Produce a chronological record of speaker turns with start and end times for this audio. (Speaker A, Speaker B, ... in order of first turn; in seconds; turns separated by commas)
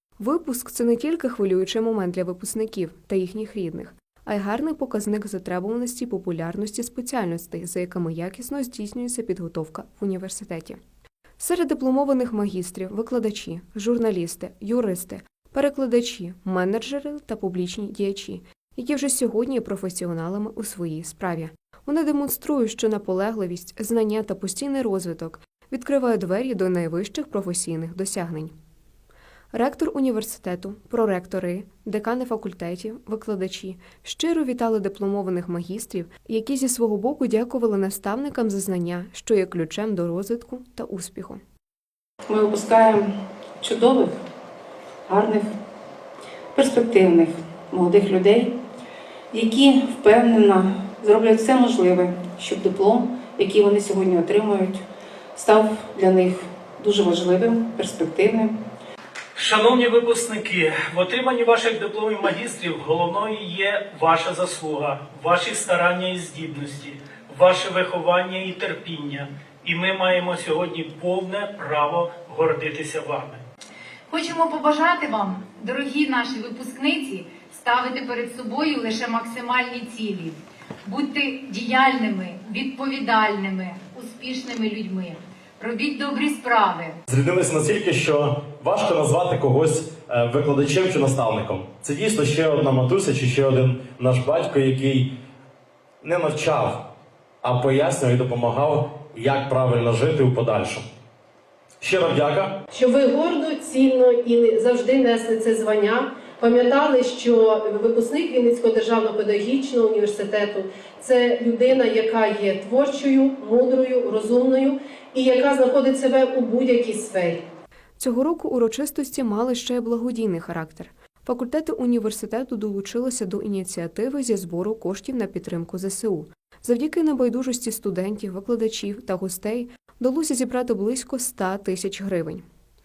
Speaker A: 0.2-10.8, Speaker A: 11.4-28.5, Speaker A: 29.5-41.4, Speaker B: 42.3-44.2, Speaker B: 45.1-45.5, Speaker B: 46.5-48.6, Speaker B: 49.3-54.8, Speaker B: 55.3-58.6, Speaker C: 59.3-73.4, Speaker D: 74.1-87.0, Speaker E: 87.1-95.1, Speaker E: 96.0-96.9, Speaker E: 97.4-100.8, Speaker E: 101.8-102.5, Speaker F: 102.7-117.4, Speaker A: 118.0-132.4